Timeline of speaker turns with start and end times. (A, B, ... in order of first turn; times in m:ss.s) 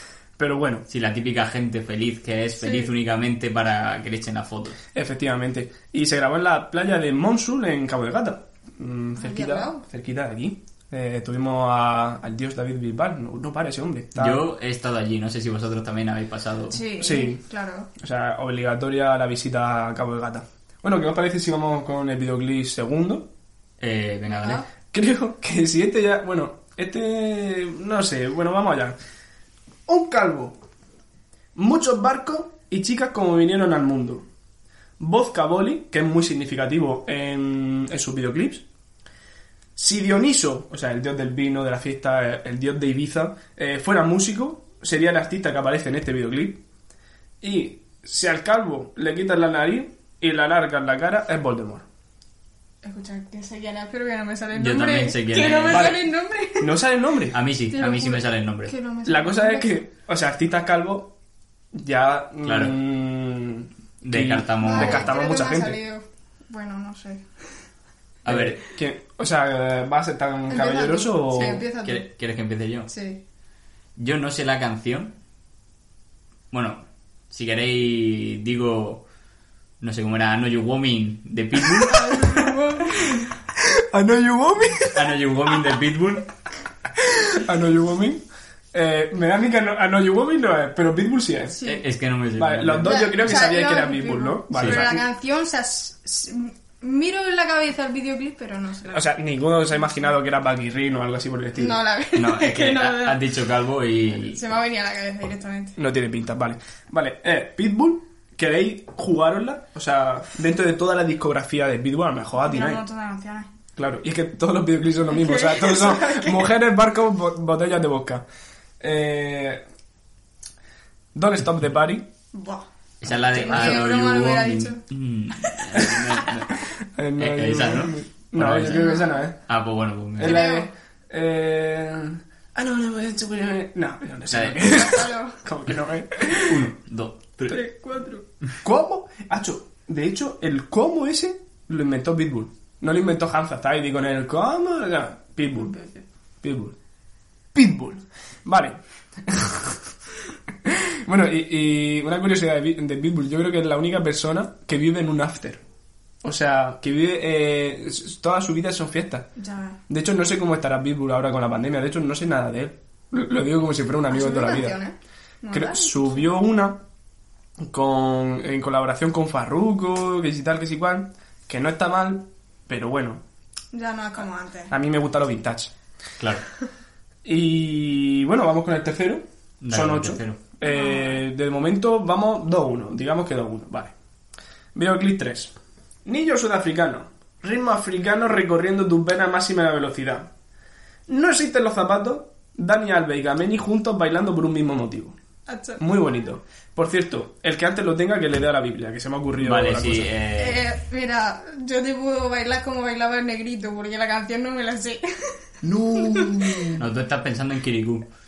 0:00.4-0:00.8 A
0:00.9-0:04.8 B
0:02.6-0:02.9 C
0:04.9-0:14.4 A
0:09.2-0:09.8 C
0:14.2-0:16.8 B
0:16.7-0:17.9 C
0:17.0-0:17.4 A
0:18.0-0:23.3 A
0:23.8-0:24.6 B
0:24.2-0:24.7 C
0:24.9-0:29.0 A
0:29.9-0:30.6 A
0:31.5-0:34.2 A
0:35.0-0:38.6 A
0:39.8-0:46.6 A
0:47.4-0:51.8 A
0:52.8-0:56.8 C
0:54.5-0:56.0 B
0:55.7-0:56.0 A
0:56.6-0:57.4 A
0:57.3-0:58.7 B
0:57.7-0:59.8 C
0:59.0-1:01.1 A
1:01.7-1:05.8 A
1:02.4-1:02.8 B
1:04.0-1:05.1 B
1:04.6-1:07.2 C
1:08.2-1:08.6 B
1:08.3-1:11.6 A
1:10.5-1:12.1 C
1:11.3-1:12.9 B
1:12.9-1:13.2 C
1:14.0-1:15.1 B
1:16.5-1:19.0 B
1:19.8-1:22.1 B
1:21.8-1:23.3 C
1:23.5-1:25.2 A
1:24.9-1:26.3 B
1:26.9-1:31.6 A
1:31.6-1:31.8 C
1:31.6-1:33.1 B
1:32.4-1:35.0 A
1:32.8-1:39.0 C
1:34.5-1:34.8 B
1:38.9-1:41.8 A
1:41.6-1:43.2 C
1:42.1-1:44.4 B
1:44.2-1:45.7 C
1:45.8-1:52.8 A
1:52.4-1:53.5 C
1:53.8-1:58.2 A
1:55.1-1:56.5 C
1:58.8-1:59.6 A
2:01.1-2:02.0 A
2:02.3-2:04.8 C
2:03.0-2:06.6 B
2:03.5-2:03.8 A
2:05.5-2:06.2 C
2:06.7-2:09.4 A
2:07.2-2:10.5 B
2:08.6-2:09.2 C
2:10.2-2:16.7 A
2:10.2-2:10.7 C
2:14.3-2:14.6 B
2:14.6-2:15.4 C
2:16.3-2:17.6 B
2:17.5-2:18.2 C
2:18.6-2:25.7 A
2:25.7-2:26.0 C
2:26.4-2:26.7 A
2:27.5-2:29.8 A
2:30.6-2:35.6 A
2:36.2-2:39.3 A
2:39.4-2:39.8 C
2:39.9-2:44.8 A
2:44.1-2:46.2 C
2:45.5-2:46.8 A
2:47.6-2:53.2 A
2:53.7-2:54.7 C
2:54.7-2:55.7 A
2:56.2-2:56.4 B
2:57.2-3:03.9 A
2:59.6-3:00.4 B
3:00.6-3:01.2 C
3:04.7-3:05.5 A
3:06.0-3:10.3 A
3:11.1-3:15.2 A
3:15.5-3:16.0 C
3:15.8-3:20.1 A
3:19.4-3:20.6 B
3:20.4-3:25.4 C
3:25.6-3:26.8 A
3:25.9-3:26.6 C
3:26.8-3:28.0 B